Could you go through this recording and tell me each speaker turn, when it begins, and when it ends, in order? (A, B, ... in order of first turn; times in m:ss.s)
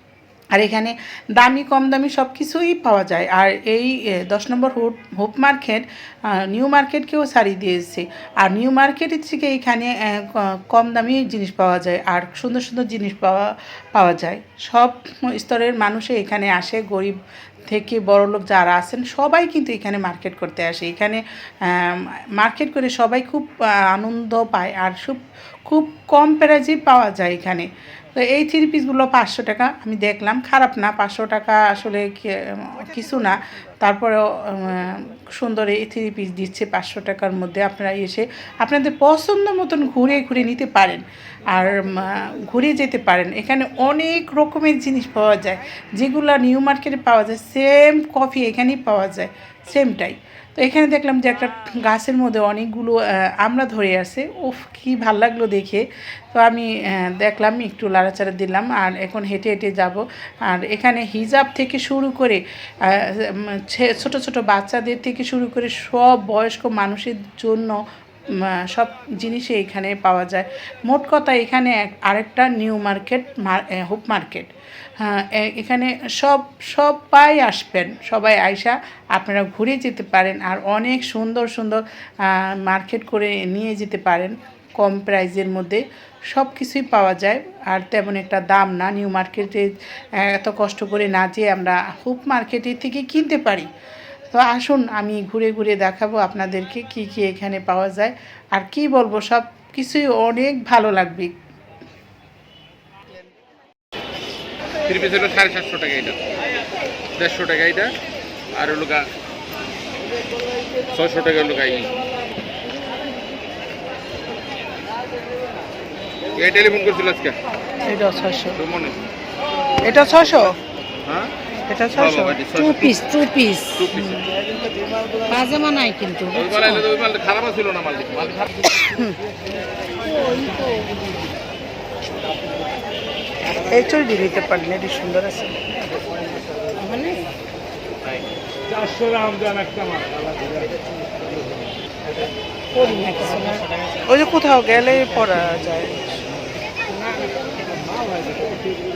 0:00.5-1:33.7 A
1:34.3-1:41.4 A
1:44.8-1:46.2 B
1:47.1-1:49.1 B
1:50.9-1:52.0 B
1:56.3-1:57.4 B
1:57.8-1:58.6 A
1:58.6-1:59.0 B
1:59.8-2:00.6 A
2:01.0-2:01.3 B
2:01.7-2:02.5 A
2:02.0-2:03.0 B
2:02.7-2:03.8 C
2:03.8-2:04.1 B
2:03.9-2:04.4 A
2:05.2-2:06.8 C
2:06.3-2:08.6 B
2:08.7-2:09.2 A
2:10.0-2:11.0 C
2:13.5-2:15.7 A
2:16.8-2:17.3 C
2:22.8-2:23.6 C
2:22.9-2:23.2 A
2:24.0-2:26.0 A
2:26.9-2:27.9 C